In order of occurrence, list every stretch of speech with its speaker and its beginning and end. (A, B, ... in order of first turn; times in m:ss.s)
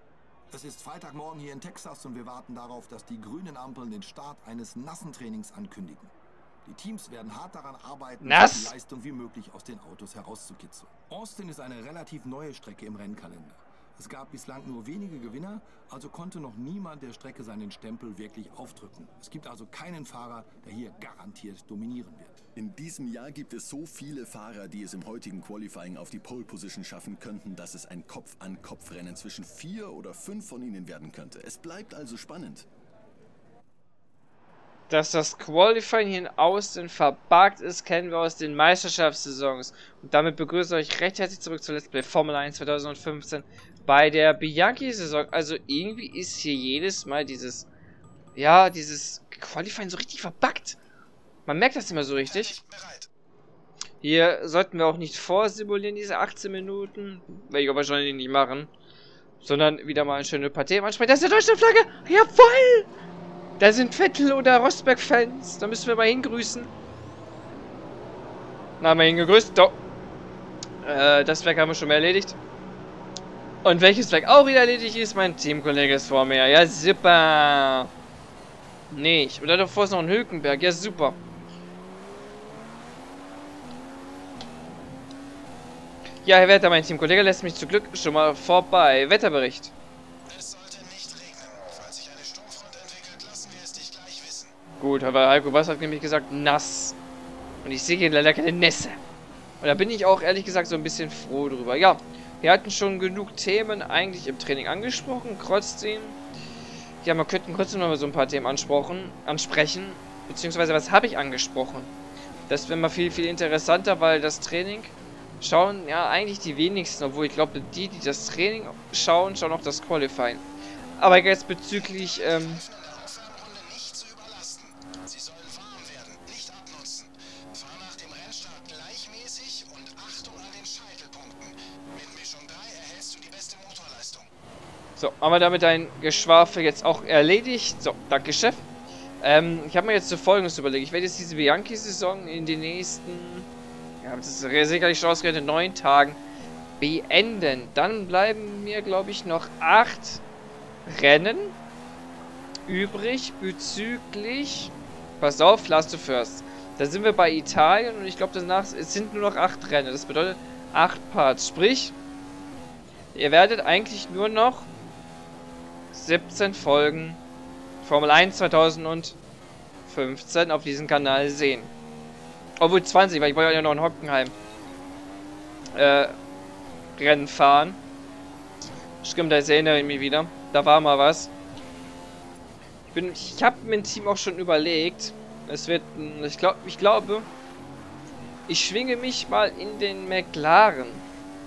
0:00.5-0:06.1 A
0:01.2-0:04.2 B
0:04.9-0:05.8 B
0:06.7-0:22.4 A
0:06.7-0:07.5 B
0:08.1-0:09.4 B
0:08.2-0:08.7 C
0:11.2-0:12.2 B
0:14.6-0:15.4 B
0:22.6-0:32.7 D
0:34.9-0:47.7 C
0:48.4-0:50.8 C
0:51.5-0:52.6 C
0:52.3-0:53.1 B
0:54.0-0:58.7 C
0:59.4-1:02.9 C
1:03.6-1:06.7 C
1:08.8-1:09.8 C
1:10.8-1:12.4 C
1:13.6-1:17.9 C
1:18.9-1:21.2 C
1:26.2-1:29.7 C
1:30.3-1:34.5 B
1:34.8-1:37.0 C
1:37.6-1:39.0 C
1:39.6-1:46.2 C
1:47.0-1:51.9 C
1:52.5-2:00.4 C
2:01.0-2:02.6 C
2:01.9-2:14.3 B
2:15.0-2:18.6 C
2:19.2-2:23.5 C
2:24.0-2:26.2 C
2:26.8-2:30.2 C
2:30.9-2:31.6 C
2:32.7-2:41.9 C
2:43.1-2:44.7 C
2:45.9-2:47.2 C
2:47.8-2:49.2 C
2:49.8-2:51.7 C
2:52.6-2:54.3 C
2:55.7-2:56.1 C
2:57.0-2:57.8 C
2:59.0-3:01.3 C
3:02.9-3:07.3 C
3:08.5-3:11.0 C